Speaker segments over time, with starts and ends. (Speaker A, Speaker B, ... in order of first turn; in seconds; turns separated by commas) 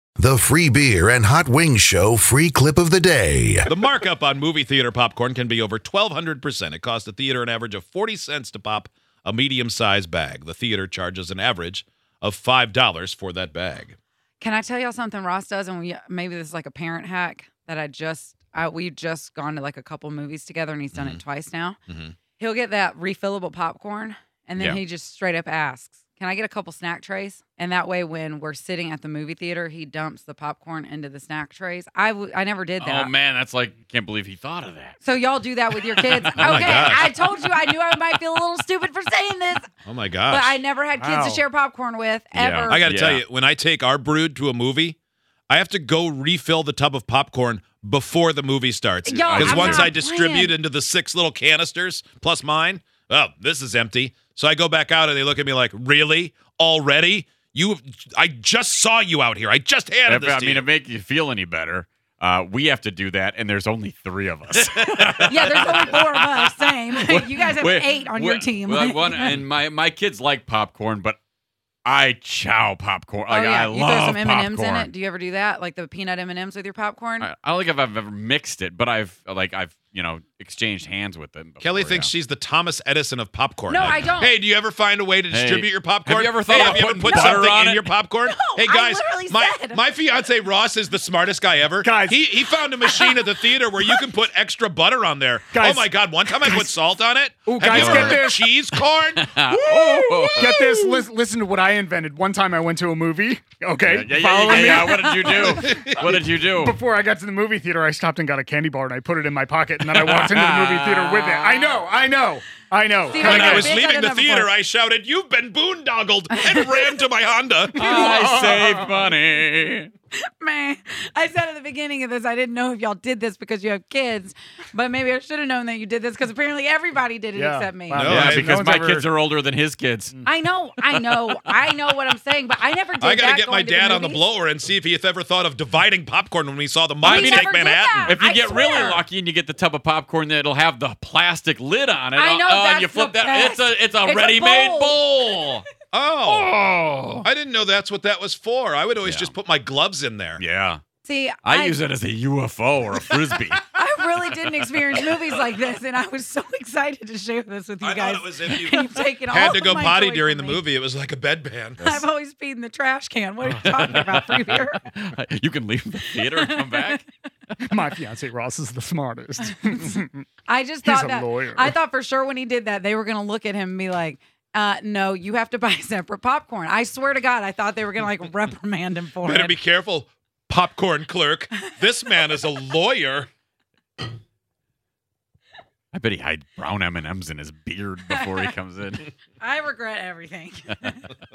Speaker A: 0.2-3.7, Speaker B: 3.7-14.0, Speaker C: 14.4-21.8, Speaker B: 20.9-21.2, Speaker B: 21.9-22.2, Speaker C: 22.3-33.1, Speaker D: 32.8-35.0, Speaker C: 35.0-39.7, Speaker D: 35.8-37.5, Speaker B: 36.4-37.1, Speaker B: 39.9-40.6, Speaker C: 40.2-42.8, Speaker E: 41.0-41.4, Speaker D: 42.3-43.2, Speaker B: 42.7-45.0, Speaker B: 45.5-60.7, Speaker C: 49.0-50.6, Speaker D: 49.3-49.9, Speaker D: 60.1-71.2, Speaker C: 65.0-69.4, Speaker D: 71.8-74.9, Speaker C: 73.3-77.3, Speaker D: 77.2-82.1, Speaker B: 81.6-99.3, Speaker C: 83.7-84.4, Speaker D: 85.3-87.9, Speaker C: 87.0-87.4, Speaker C: 88.2-89.8, Speaker E: 91.8-92.4, Speaker C: 92.6-94.1, Speaker E: 95.5-96.7, Speaker E: 97.5-98.5, Speaker D: 97.6-98.2, Speaker D: 99.2-100.9, Speaker E: 99.4-113.7, Speaker C: 100.4-100.7, Speaker D: 103.8-106.8, Speaker B: 105.5-106.1, Speaker D: 109.8-111.7, Speaker C: 113.1-114.5, Speaker B: 113.2-117.9, Speaker C: 116.3-117.0, Speaker D: 117.8-119.9, Speaker E: 117.8-118.9, Speaker C: 120.2-128.0, Speaker E: 127.3-129.1, Speaker B: 127.9-128.6, Speaker D: 128.0-130.2, Speaker C: 130.2-134.2, Speaker D: 130.8-131.9, Speaker B: 133.0-138.2, Speaker C: 137.0-139.0, Speaker D: 137.0-145.7, Speaker C: 142.2-145.5, Speaker B: 145.9-146.5, Speaker D: 146.2-147.2, Speaker B: 147.2-150.4, Speaker D: 149.0-149.3, Speaker D: 150.4-150.8, Speaker C: 151.0-151.8, Speaker D: 151.4-155.2, Speaker C: 153.7-160.6, Speaker B: 157.8-162.0, Speaker C: 161.8-164.9, Speaker D: 163.6-167.0, Speaker C: 166.1-167.0, Speaker E: 167.6-170.3, Speaker C: 169.5-169.8, Speaker C: 170.5-179.6, Speaker E: 170.8-171.8, Speaker B: 179.2-183.3, Speaker C: 181.5-182.4, Speaker D: 185.9-189.0, Speaker C: 188.1-188.5, Speaker C: 189.4-191.1